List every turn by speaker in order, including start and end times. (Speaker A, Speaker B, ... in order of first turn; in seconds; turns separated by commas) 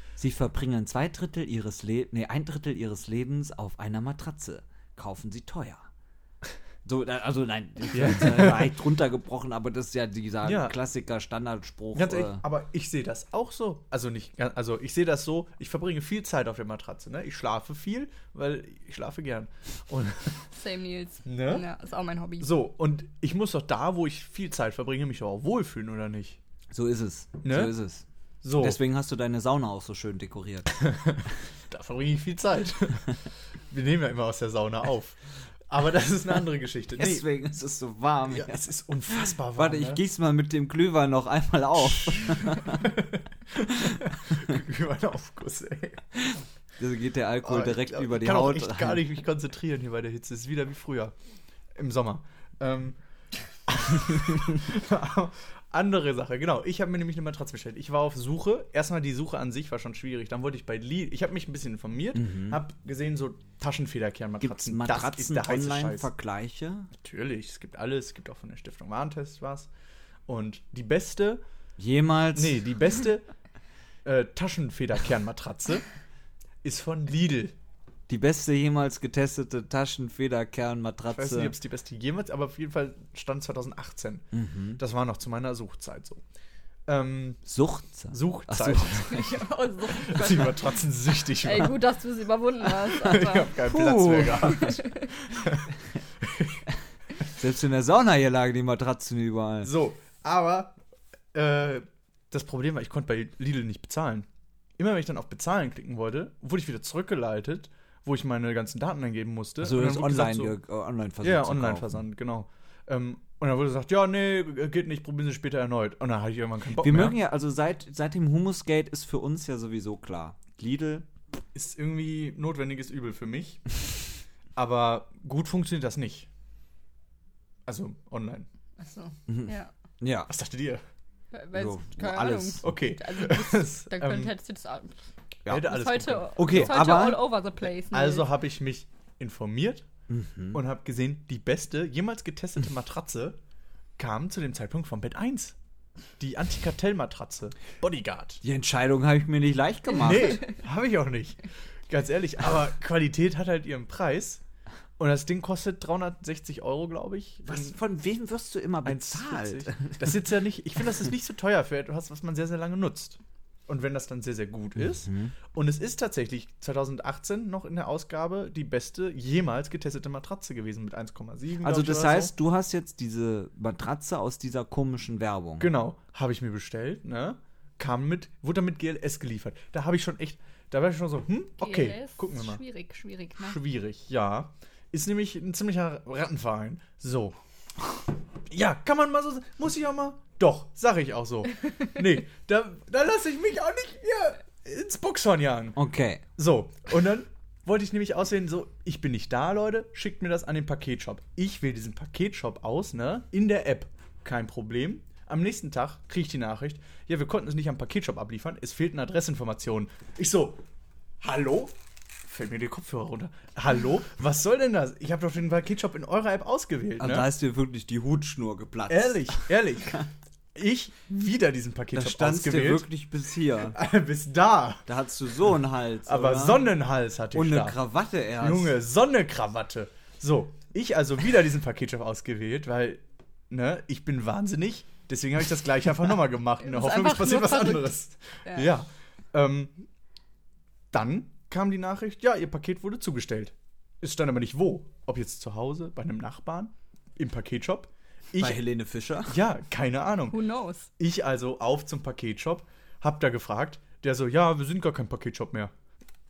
Speaker A: 0.2-5.9, Speaker A: 6.8-12.4, Speaker B: 7.9-8.7, Speaker B: 10.4-10.7, Speaker B: 11.9-20.4, Speaker C: 20.6-22.5, Speaker B: 21.3-21.7, Speaker B: 22.4-26.4, Speaker A: 26.7-30.9, Speaker B: 27.4-27.7, Speaker B: 28.4-28.8, Speaker B: 30.8-33.1, Speaker B: 33.7-37.3, Speaker A: 37.0-38.7, Speaker B: 38.3-40.0, Speaker A: 39.5-43.0, Speaker B: 41.9-46.0, Speaker A: 43.7-44.4, Speaker A: 46.1-49.0, Speaker B: 47.4-51.1, Speaker B: 51.8-53.0, Speaker B: 53.7-66.1, Speaker A: 62.1-62.6, Speaker A: 64.4-66.9, Speaker B: 66.9-69.7, Speaker B: 70.3-71.4, Speaker A: 71.8-72.6, Speaker B: 72.3-73.2, Speaker B: 74.0-75.9, Speaker B: 76.6-77.5, Speaker A: 78.1-81.5, Speaker B: 81.1-84.3, Speaker A: 84.3-84.8, Speaker B: 84.8-86.2, Speaker B: 86.9-87.4, Speaker A: 87.5-89.3, Speaker B: 88.1-89.2, Speaker C: 89.0-93.6, Speaker B: 89.9-91.8, Speaker B: 92.8-96.6, Speaker A: 93.6-94.8, Speaker C: 94.3-95.2, Speaker A: 97.2-99.7, Speaker B: 99.6-100.8, Speaker B: 101.3-104.3, Speaker B: 104.8-110.6, Speaker A: 109.6-112.0, Speaker B: 111.2-117.2, Speaker A: 116.8-121.1, Speaker B: 121.5-123.8, Speaker B: 124.6-126.3, Speaker B: 127.7-128.5, Speaker C: 128.8-129.7, Speaker A: 129.3-130.3, Speaker B: 130.3-130.8, Speaker C: 131.3-135.0, Speaker A: 131.6-132.7, Speaker B: 132.6-134.3, Speaker A: 135.5-135.7, Speaker B: 135.5-137.0, Speaker C: 135.6-138.3, Speaker A: 136.3-137.3, Speaker B: 137.9-139.9, Speaker A: 140.1-140.6, Speaker B: 140.5-143.4, Speaker B: 144.0-145.6, Speaker B: 146.2-148.4, Speaker A: 148.4-150.5, Speaker B: 149.9-154.4, Speaker B: 155.0-157.8, Speaker A: 157.4-160.2, Speaker B: 158.8-172.3, Speaker A: 164.8-165.3, Speaker A: 171.6-175.7, Speaker B: 175.6-182.6, Speaker C: 181.6-183.6, Speaker B: 183.4-187.4, Speaker B: 188.5-195.8, Speaker A: 195.8-196.3, Speaker B: 196.4-210.6, Speaker B: 211.2-217.3, Speaker A: 217.0-219.5, Speaker B: 218.9-220.0, Speaker B: 220.6-222.9, Speaker A: 221.9-223.8, Speaker B: 223.7-224.8, Speaker A: 224.9-226.6, Speaker B: 226.1-227.8, Speaker A: 227.3-228.7, Speaker B: 228.4-239.7, Speaker C: 236.6-238.7, Speaker B: 240.9-248.6, Speaker A: 248.4-249.4, Speaker B: 249.3-250.4, Speaker C: 250.3-250.9, Speaker B: 251.0-255.7